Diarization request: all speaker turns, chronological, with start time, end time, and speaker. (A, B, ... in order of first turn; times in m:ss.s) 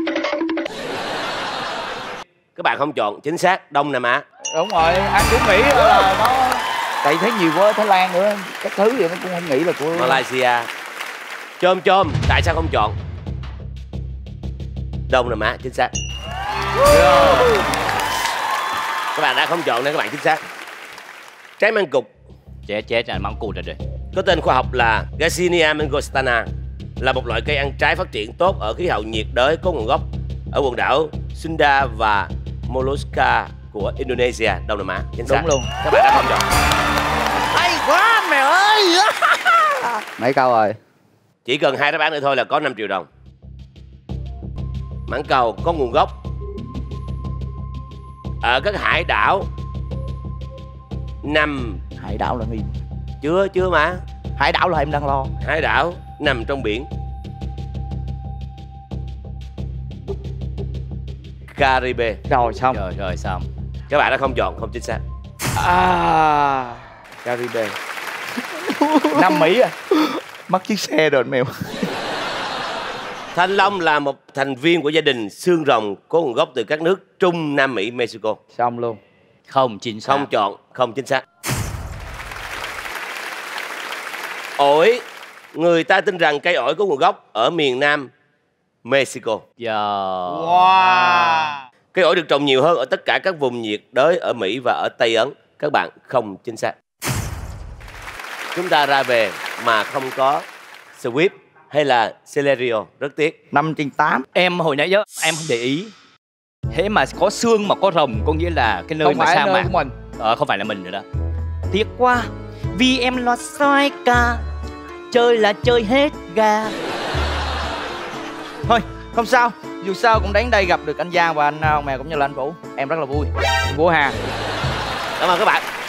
0:02.6-0:04.2 A
0:04.5-0:10.2 B
0:09.9-0:10.7 A
0:11.6-0:13.0 A
0:15.1-0:15.9 A
0:16.9-0:17.5 B
0:19.1-0:20.4 A
0:21.6-0:22.1 A
0:22.7-0:23.8 C
0:24.1-0:26.5 A
0:27.0-0:36.5 A
0:35.3-0:35.7 B
0:37.5-0:40.0 D
0:40.2-0:40.8 C
0:41.4-0:43.1 A
0:45.1-0:46.1 A
0:48.4-0:49.5 A
0:51.2-0:51.8 A
0:52.0-0:52.7 D
0:53.2-0:54.0 A
0:54.4-0:55.3 D
0:55.4-0:56.9 A
1:01.5-1:02.2 A
1:02.3-1:02.8 B
1:02.7-1:03.5 C
1:03.9-1:05.0 A
1:05.6-1:07.8 B
1:08.5-1:11.9 D
1:09.2-1:09.7 B
1:13.3-1:18.4 A
1:18.5-1:19.0 B
1:19.5-1:20.3 C
1:20.0-1:21.2 A
1:24.6-1:25.0 A
1:25.5-1:28.1 A
1:28.8-1:29.4 A
1:29.6-1:31.5 C
1:30.6-1:31.3 B
1:31.9-1:36.8 A
1:38.5-1:40.4 A
1:41.0-1:43.4 A
1:43.5-1:44.3 D
1:44.4-1:45.9 C
1:46.7-1:51.0 C
1:49.0-1:50.0 B
1:51.7-1:54.4 C
1:55.1-1:56.8 C
1:58.7-2:03.3 D
2:03.7-2:04.2 B
2:05.2-2:05.6 A